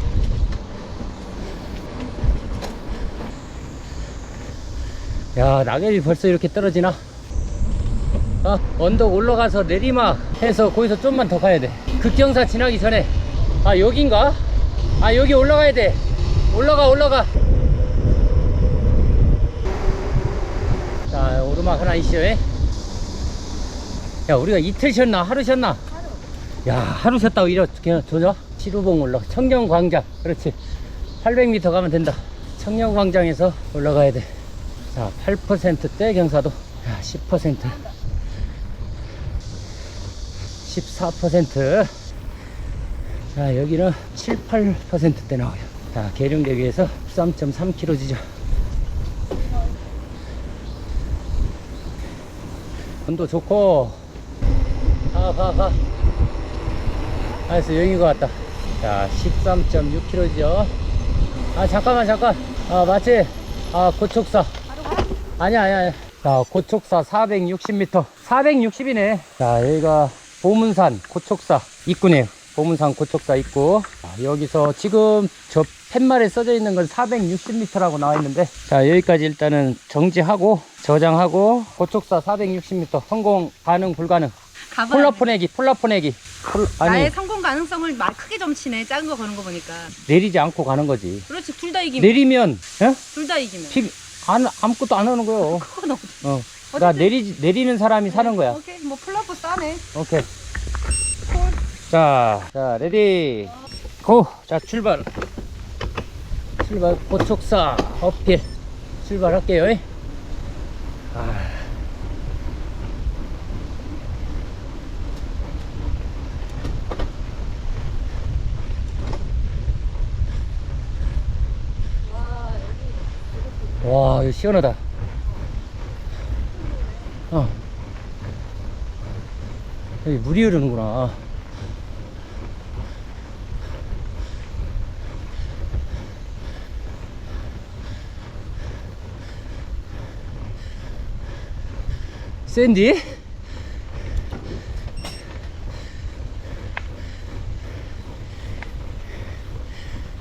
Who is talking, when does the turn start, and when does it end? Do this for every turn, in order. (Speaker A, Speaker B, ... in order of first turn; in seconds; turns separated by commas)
Speaker A: 5.3-7.0, Speaker A: 8.4-14.4, Speaker A: 15.0-17.3, Speaker A: 21.1-22.4, Speaker A: 24.3-25.9, Speaker A: 26.6-30.6, Speaker A: 31.2-34.3, Speaker A: 34.9-37.9, Speaker A: 40.6-41.9, Speaker A: 43.4-48.2, Speaker A: 53.1-54.0, Speaker A: 55.1-55.8, Speaker A: 57.5-60.7, Speaker A: 61.5-64.5, Speaker A: 65.4-84.3, Speaker B: 84.7-85.2, Speaker A: 84.9-87.1, Speaker B: 86.8-90.0, Speaker A: 90.0-91.3, Speaker B: 91.3-92.2, Speaker A: 92.0-93.0, Speaker B: 93.1-93.8, Speaker A: 93.7-95.7, Speaker B: 95.5-96.2, Speaker A: 96.2-98.6, Speaker B: 96.8-97.1, Speaker B: 98.1-99.8, Speaker A: 99.9-100.3, Speaker A: 101.9-105.1, Speaker A: 106.6-108.5, Speaker A: 109.0-109.8, Speaker A: 111.1-111.6, Speaker A: 123.8-124.8, Speaker A: 130.0-131.2, Speaker A: 142.5-143.2